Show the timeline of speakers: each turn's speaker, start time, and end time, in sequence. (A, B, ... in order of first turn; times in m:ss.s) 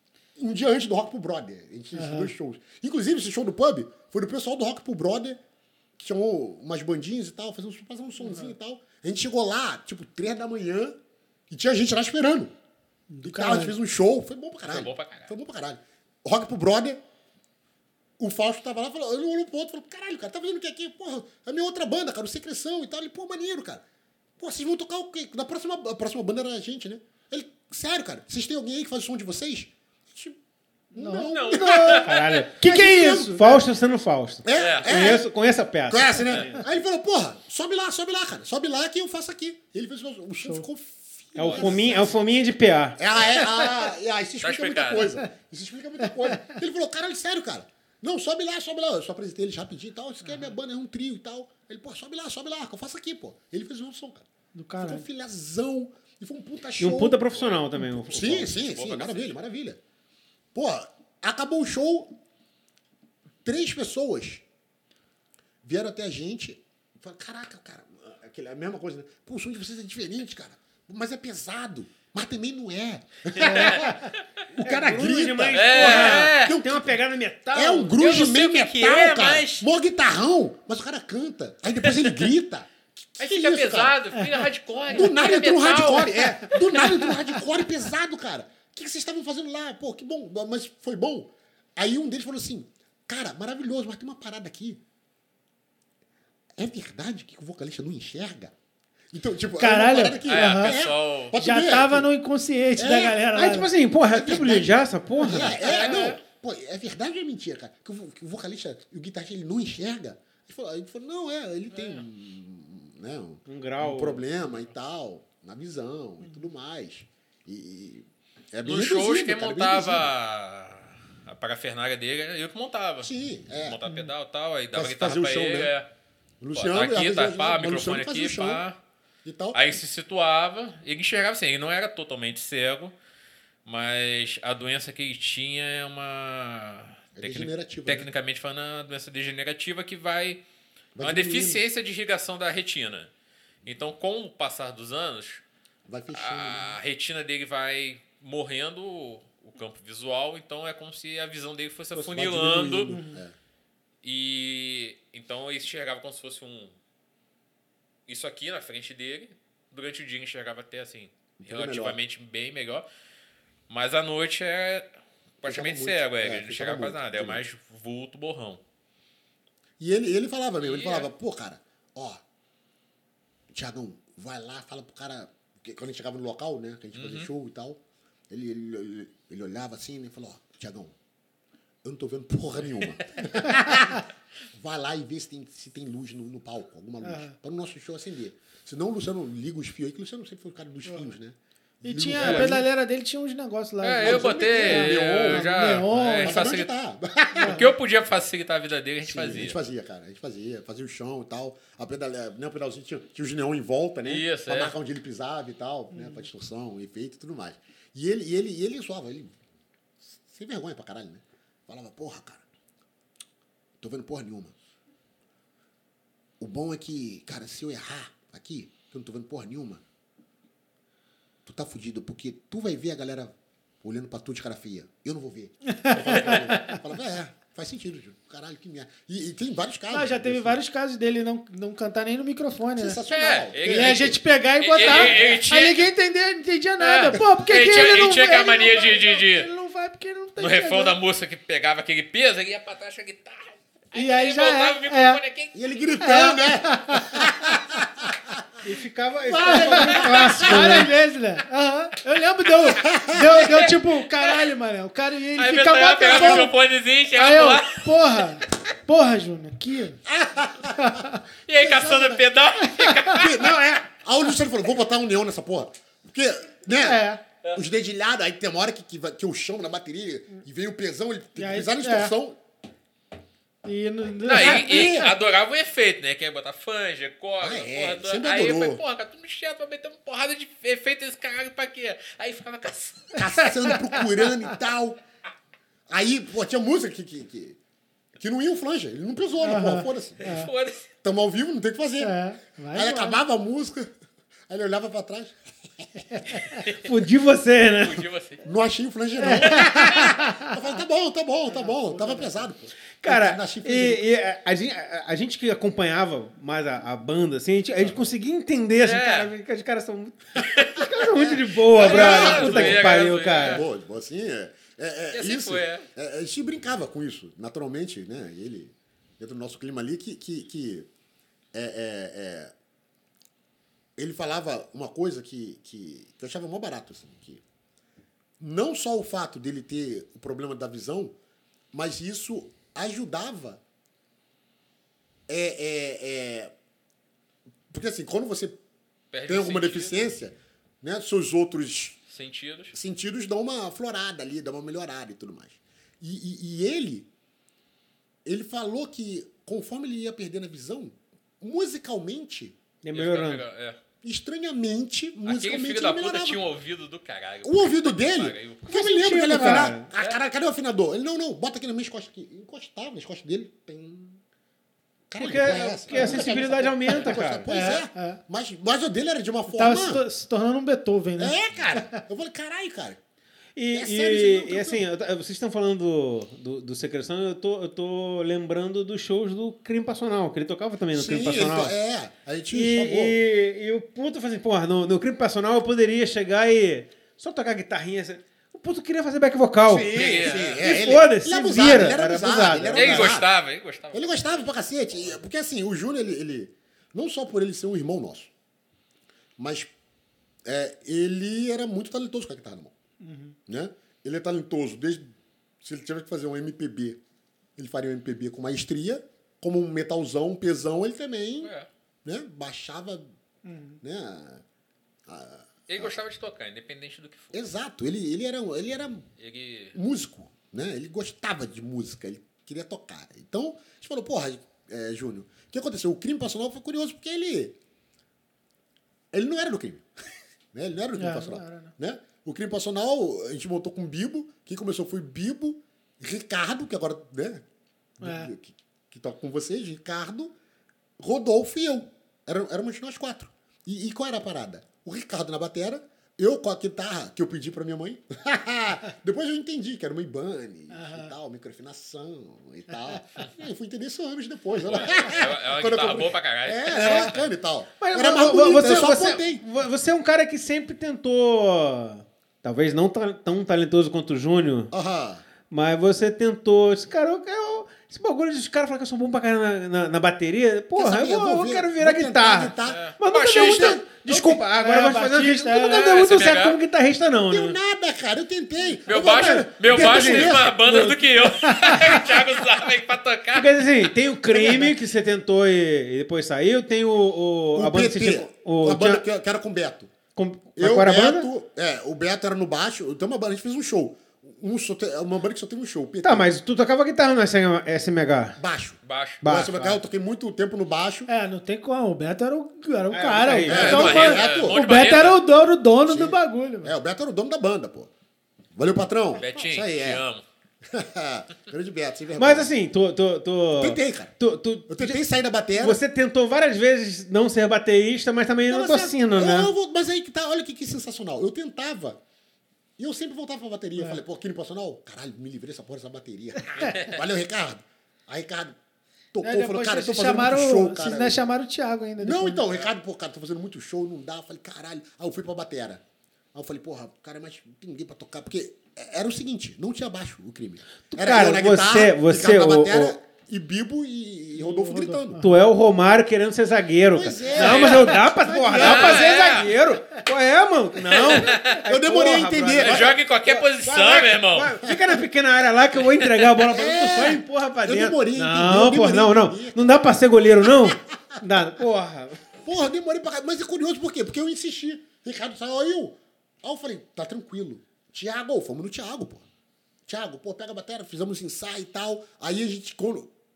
0:00.4-0:05.4 A
0:01.9-0:02.3 B
0:06.0-0:11.0 A
0:08.2-0:08.5 B
0:11.5-0:12.5 A
0:13.1-0:13.7 B
0:13.2-0:17.0 A
0:14.6-0:15.3 C
0:18.2-0:23.8 A
0:24.4-0:30.4 A
0:30.9-0:32.1 A
0:30.9-0:33.6 B
0:31.2-0:32.2 C
0:32.0-0:36.6 D
0:32.6-0:33.6 A
0:34.4-0:35.3 A
0:34.6-0:35.2 C
0:35.9-0:42.1 A
0:41.4-0:43.0 D
0:41.5-0:41.8 B
0:43.0-0:54.2 A
0:44.4-0:45.1 C
0:54.5-0:55.0 B
0:54.8-0:57.2 A
0:56.8-0:58.5 D
0:57.3-0:57.6 C
0:57.8-0:59.8 A
0:58.5-0:59.4 C
1:00.6-1:02.1 A
1:03.4-1:04.4 A
1:05.6-1:17.0 A
1:13.4-1:14.2 C
1:14.6-1:18.0 D
1:15.5-1:16.6 C
1:17.5-1:24.0 A
1:18.0-1:19.7 C
1:23.2-1:27.0 C
1:24.2-1:24.5 B
1:24.9-1:34.8 A
1:36.6-1:38.5 A
1:39.1-1:42.1 A
1:39.6-1:40.8 B
1:40.2-1:41.3 C
1:41.4-1:43.7 B
1:42.8-1:43.2 A
1:43.3-1:45.6 D
1:44.1-2:00.1 A
1:45.2-1:45.9 B
1:45.6-1:46.2 C
1:53.5-1:54.2 D
1:58.6-2:05.9 C
2:03.0-2:03.8 A
2:04.7-2:05.7 A
2:06.4-2:08.6 A
2:06.5-2:08.8 C
2:09.2-2:09.8 A
2:09.5-2:12.9 C
2:13.7-2:20.4 C
2:17.2-2:18.1 A
2:21.0-2:21.6 A
2:21.0-2:23.1 C
2:23.6-2:25.4 C
2:25.9-2:26.8 A
2:26.1-2:32.9 C
2:32.0-2:33.4 A
2:32.9-2:33.2 B
2:34.0-2:36.8 C
2:38.1-2:42.8 C
2:41.4-2:42.0 A
2:43.7-2:44.9 C
2:45.4-2:48.6 C
2:45.4-2:47.4 A
2:49.8-2:52.2 A
2:50.6-2:51.1 C
2:53.5-2:57.8 A
2:57.0-2:57.3 C
2:58.3-3:00.9 A
3:01.8-3:12.7 A
3:07.0-3:07.3 B
3:11.8-3:16.4 B
3:12.2-3:12.4 C
3:13.8-3:16.7 C
3:14.0-3:17.6 A
3:17.3-3:19.6 C
3:17.4-3:17.7 B
3:19.0-3:29.4 A
3:24.0-3:24.7 C
3:25.9-3:26.2 B
3:30.3-3:32.4 A
3:33.8-3:34.6 A
3:36.4-3:39.8 A
3:41.4-3:50.6 A
3:45.8-3:46.8 B
3:46.1-3:46.4 C
3:49.9-3:53.0 B
3:52.8-3:54.2 A
3:53.1-3:55.9 C
3:53.6-4:01.0 B
3:54.8-3:55.4 A
3:56.8-3:59.5 C
4:00.4-4:05.6 C
4:03.9-4:05.2 B
4:05.5-4:08.4 A
4:06.0-4:07.5 B
4:08.6-4:10.9 D
4:09.3-4:10.9 A
4:09.4-4:16.6 B
4:12.8-4:13.4 A
4:13.3-4:14.5 C
4:15.4-4:18.1 C
4:16.1-4:16.5 A
4:17.1-4:20.0 B
4:20.0-4:22.2 A
4:20.7-4:21.2 B
4:21.5-4:23.6 C
4:22.6-4:23.3 B
4:23.1-4:32.4 A
4:26.8-4:27.2 B
4:31.4-4:32.1 B
4:33.6-4:35.1 B
4:34.2-4:43.3 C
4:34.3-4:35.1 A
4:37.4-4:38.8 A
4:43.2-4:45.0 A
4:43.7-4:44.0 B
4:45.9-4:47.6 A
4:48.2-4:50.2 A
4:49.4-4:50.5 B
4:50.2-4:50.9 C
4:51.0-4:52.2 A
4:52.0-4:53.2 B
4:52.7-4:53.9 A
4:54.5-4:56.0 A
4:56.1-4:56.6 B
4:56.5-4:56.7 C
4:56.7-4:58.0 D
4:57.8-4:58.4 C
4:58.4-5:04.0 A
4:59.2-5:00.6 B
5:01.5-5:02.5 B
5:03.0-5:13.6 D
5:08.8-5:09.3 C
5:10.8-5:20.9 A
5:11.8-5:13.6 C
5:15.1-5:15.9 C
5:21.5-5:22.5 A
5:24.0-5:27.4 A
5:28.4-5:31.2 A
5:31.7-5:33.6 A
5:35.3-5:36.5 A
5:37.7-5:38.6 A
5:39.1-5:40.0 C
5:39.2-5:42.0 A
5:42.1-5:42.7 C
5:42.7-5:47.1 A
5:48.3-5:52.6 A
5:52.8-5:53.4 D
5:52.9-5:53.8 C
5:54.0-5:56.4 A
5:55.2-5:58.6 C
5:57.4-6:04.2 A
5:58.6-5:59.9 D
5:59.3-5:59.8 B
6:05.1-6:10.0 A
6:05.2-6:07.5 D
6:05.9-6:08.2 B
6:09.5-6:12.0 B
6:11.2-6:13.0 A
6:13.6-6:21.7 D
6:13.7-6:14.9 A
6:20.9-6:23.2 A
6:22.5-6:33.1 D
6:29.7-6:33.3 A
6:29.8-6:30.6 C
6:32.7-6:34.5 C
6:33.9-6:38.3 A
6:39.4-6:39.7 A
6:40.5-6:42.7 A
6:43.0-6:43.4 B
6:43.5-6:47.0 A
6:47.6-6:51.5 A
6:51.4-6:51.7 C
6:52.0-6:53.1 A
6:53.4-6:53.8 B
6:53.8-6:54.4 A
6:55.1-6:56.0 A
6:55.7-6:57.4 C
6:57.3-6:59.1 A
6:59.2-6:59.8 C
6:59.7-7:07.6 A
7:09.1-7:09.9 A
7:10.5-7:17.4 A
7:11.0-7:11.7 B
7:18.0-7:20.3 A
7:18.0-7:18.3 B
7:21.0-7:39.4 A
7:30.7-7:31.1 B
7:34.6-7:37.3 C
7:36.8-7:37.1 B
7:37.8-7:44.7 D
7:44.7-7:45.2 A
7:45.5-7:57.6 D
7:50.8-7:53.8 A
7:52.6-7:53.8 C
7:54.1-7:55.9 B
7:55.6-7:56.6 C
7:57.3-8:00.9 A
7:58.9-8:03.9 C
7:58.9-8:01.0 D
8:01.5-8:02.1 B
8:03.3-8:09.0 D
8:04.3-8:04.8 A
8:07.6-8:09.9 A
8:10.2-8:11.3 D
8:10.6-8:16.3 A
8:16.0-8:18.4 D
8:18.4-8:21.1 A
8:18.8-8:19.2 C
8:19.2-8:19.8 D
8:21.1-8:26.7 B
8:22.9-8:24.1 D
8:23.4-8:24.6 A
8:23.5-8:25.2 C
8:25.9-8:27.9 A
8:28.6-8:30.0 A
8:29.2-8:30.2 C
8:30.6-8:32.5 A
8:32.2-8:35.0 D
8:33.6-8:34.1 A
8:34.7-8:35.8 A
8:35.6-8:39.5 D
8:38.5-8:42.0 A
8:42.8-8:48.6 A
8:46.6-8:47.0 C
8:49.1-8:51.2 A
8:49.2-8:52.7 B
8:52.0-8:55.8 A
8:56.3-9:05.2 A
9:00.9-9:03.0 D
9:04.4-9:05.3 B
9:05.2-9:22.2 D
9:06.9-9:09.0 A
9:07.4-9:07.9 C
9:08.4-9:09.2 B
9:08.6-9:09.5 C
9:10.9-9:11.6 C
9:11.6-9:13.0 A
9:12.6-9:14.6 C
9:14.6-9:15.0 A
9:15.9-9:16.3 C
9:16.4-9:19.8 A
9:20.4-9:21.2 A
9:22.4-9:29.2 A
9:29.9-9:33.1 A